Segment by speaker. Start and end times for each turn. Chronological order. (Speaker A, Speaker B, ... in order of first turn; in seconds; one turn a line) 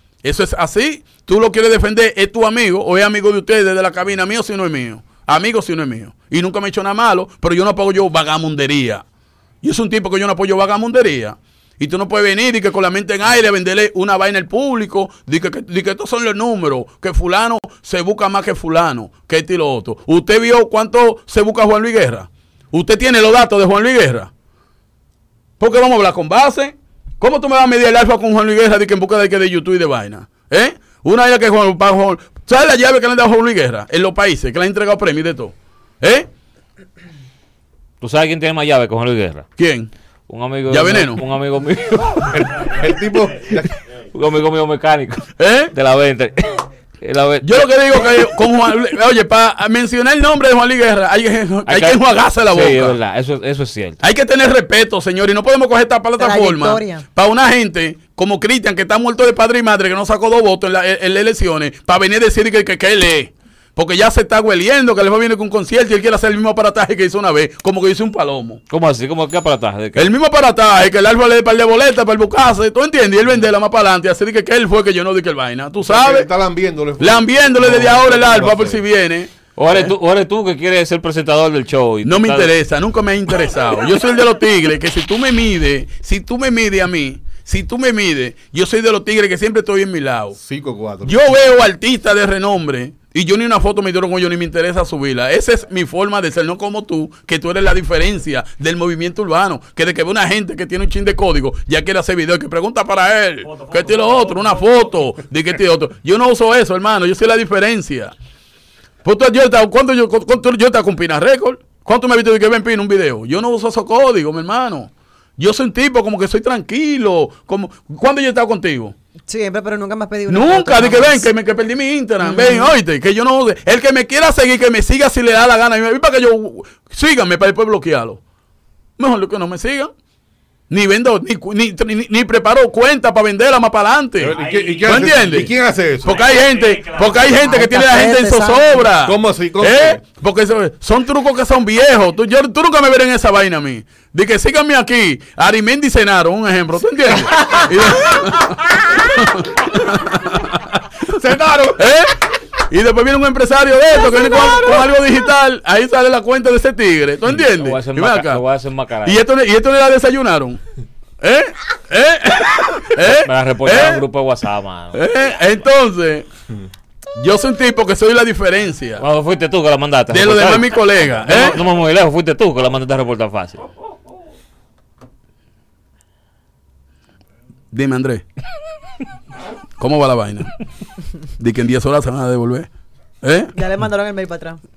Speaker A: 0.2-9.0
Speaker A: 9.6-24.3
Speaker A: 25.6-36.3
Speaker B: 38.0-39.4
Speaker A: 39.6-39.9
Speaker B: 40.3-42.7
Speaker A: 40.7-41.2
Speaker C: 42.3-43.7
Speaker B: 44.0-47.7
Speaker A: 45.4-45.7
Speaker A: 47.4-53.0
Speaker B: 51.7-54.0
Speaker A: 54.0-68.6
Speaker D: 56.2-57.0
Speaker B: 68.7-70.1
Speaker A: 70.0-76.3
Speaker C: 75.8-78.8
Speaker A: 77.0-79.9
Speaker B: 79.5-82.5
Speaker A: 82.0-90.4
Speaker C: 90.4-91.2
Speaker A: 91.0-108.1
Speaker A: 109.0-118.9
Speaker D: 119.3-121.3
Speaker A: 120.3-128.2
Speaker D: 122.2-122.8
Speaker A: 129.0-129.9
Speaker A: 130.7-135.5
Speaker C: 134.2-136.3
Speaker B: 134.5-134.7
Speaker A: 136.0-151.2
Speaker B: 136.3-137.1
Speaker D: 137.4-138.9
Speaker C: 139.0-140.0
Speaker C: 151.1-151.8
Speaker A: 151.8-152.2
Speaker A: 152.7-158.4
Speaker B: 157.3-159.2
Speaker A: 159.0-160.6
Speaker A: 161.2-164.0
Speaker B: 163.0-165.0
Speaker A: 164.9-166.3
Speaker A: 167.2-169.1
Speaker B: 169.0-173.7
Speaker A: 170.1-171.6
Speaker A: 177.7-178.2
Speaker A: 179.8-180.6
Speaker A: 181.4-182.7
Speaker A: 183.2-183.6
Speaker D: 183.6-184.6